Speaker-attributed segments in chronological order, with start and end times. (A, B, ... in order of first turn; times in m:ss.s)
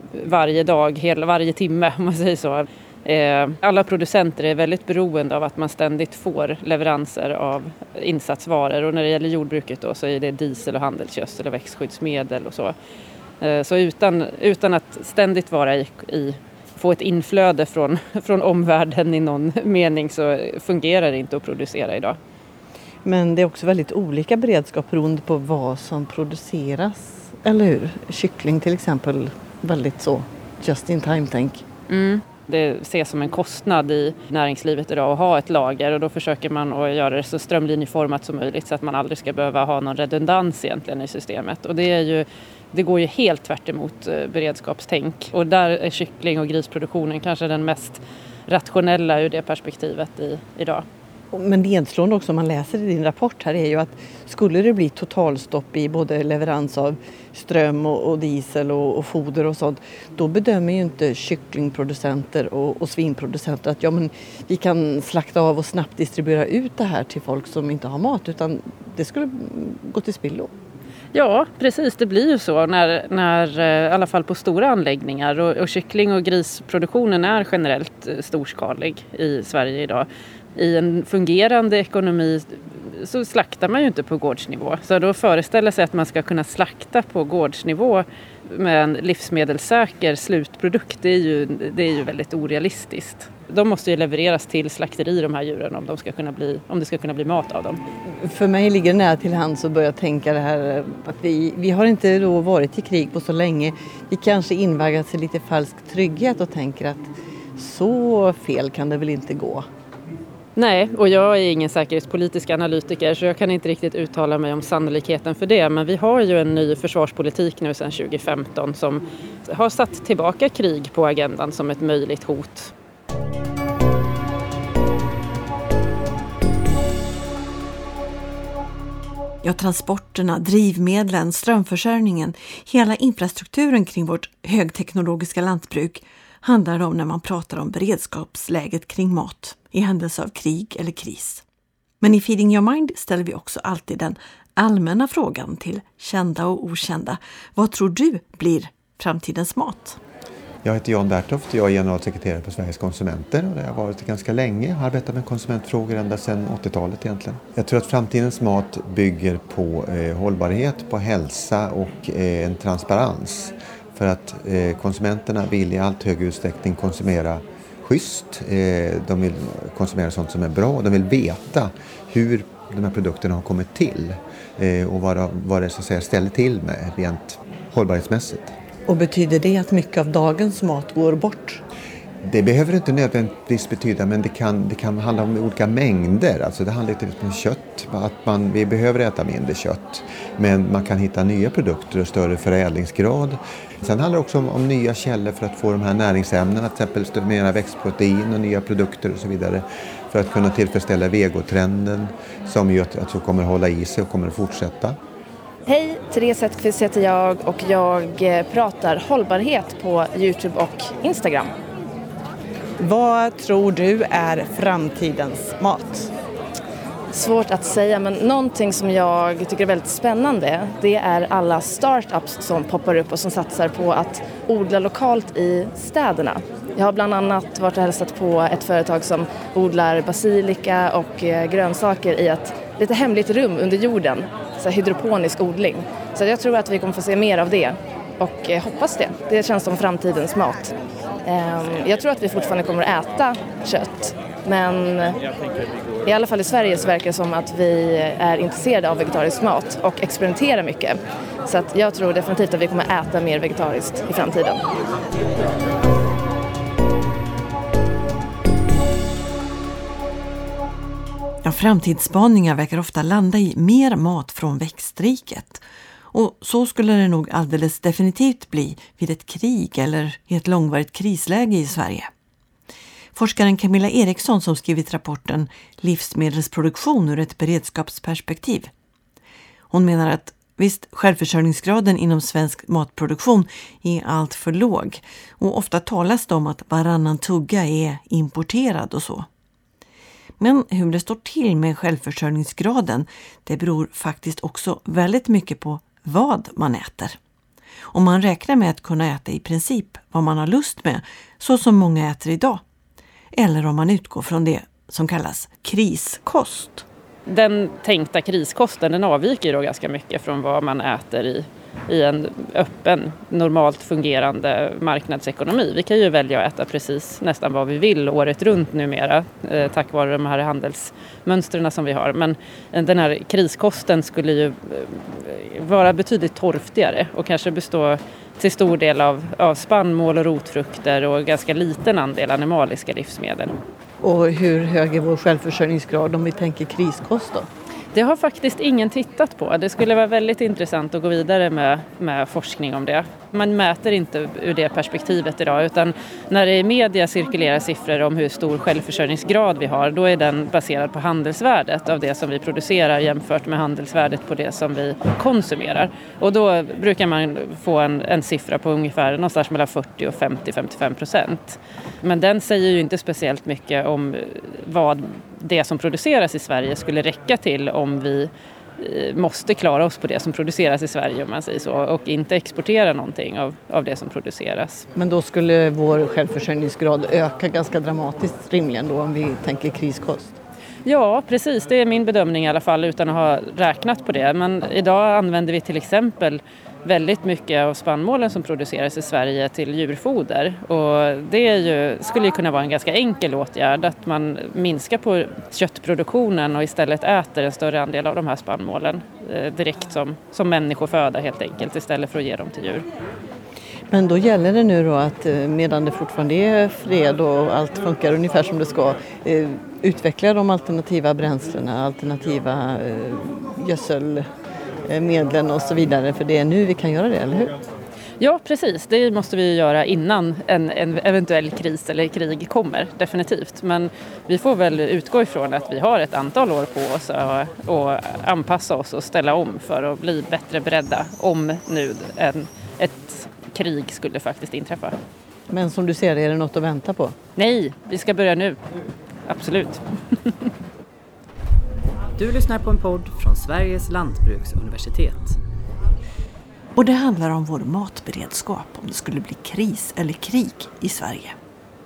0:00.2-0:12.7 A
0:13.4-0:22.2 A
0:23.0-0:31.6 B
0:31.9-0:50.8 A
0:51.3-1:10.4 B
0:54.5-0:56.3 C
1:04.7-1:05.7 C
1:06.7-1:07.4 C
1:11.1-1:37.8 A
1:38.2-1:49.6 B
1:42.1-1:42.9 C
1:50.6-2:02.7 A
2:09.4-2:21.4 D
2:22.0-2:30.0 D
2:30.6-2:58.5 E
2:58.9-3:01.6 B
2:59.2-2:59.5 C
3:02.3-3:25.0 E
3:25.7-3:31.5 C
3:32.8-3:36.1 B
3:37.1-4:00.7 C
4:01.2-4:05.2 C
4:06.0-4:14.6 C
4:21.4-4:32.1 D
4:33.1-4:38.7 D
4:39.7-4:49.3 D
4:50.4-4:57.2 D
4:57.9-5:02.6 D
5:03.3-5:06.9 D
5:07.3-5:33.5 A
5:34.0-5:37.5 B
5:34.9-5:35.3 C
5:36.7-5:37.0 C
5:37.9-6:14.8 A
6:15.0-6:20.3 B
6:15.3-6:16.7 C
6:20.8-6:42.8 A
6:43.9-6:54.2 B
6:44.1-6:48.5 C
6:50.8-6:51.2 C
6:54.9-6:57.4 B
6:56.1-6:57.4 C
6:58.2-7:14.9 A
7:15.5-7:16.0 B
7:15.6-7:17.1 C
7:17.4-7:18.6 A
7:19.3-7:20.5 A
7:22.2-7:25.4 F
7:26.8-7:31.4 D